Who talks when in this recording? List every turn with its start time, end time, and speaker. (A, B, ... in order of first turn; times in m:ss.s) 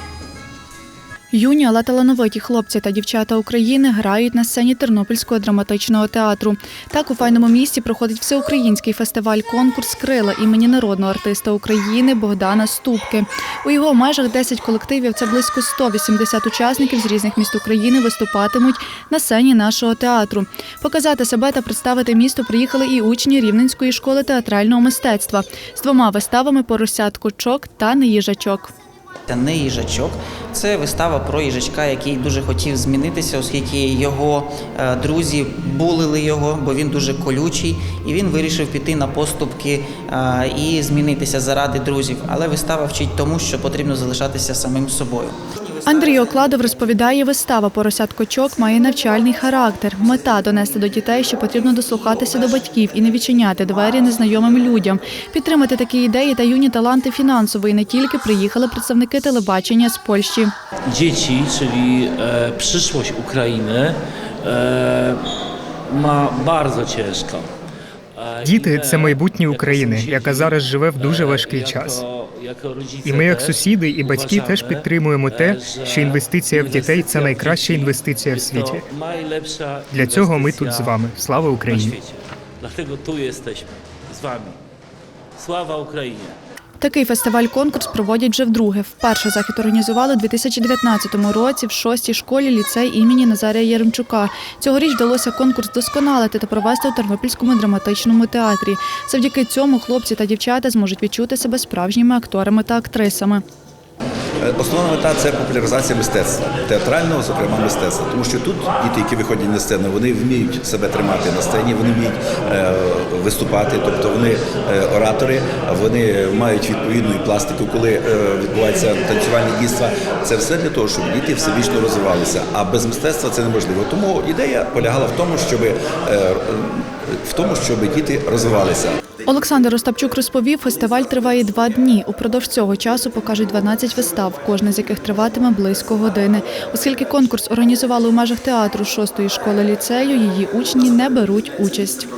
0:01.3-0:28.7 A
0:29.3-0:45.5 B
0:45.8-1:00.5 A
1:00.9-1:05.3 C
1:05.9-1:07.5 C
1:08.2-1:20.9 C
1:08.4-1:12.0 D
1:13.0-1:18.8 D
1:19.9-1:22.0 D
1:21.7-1:24.6 C
1:25.4-1:26.4 C
1:26.8-1:43.4 A
1:44.4-2:09.0 E
2:09.2-2:22.1 A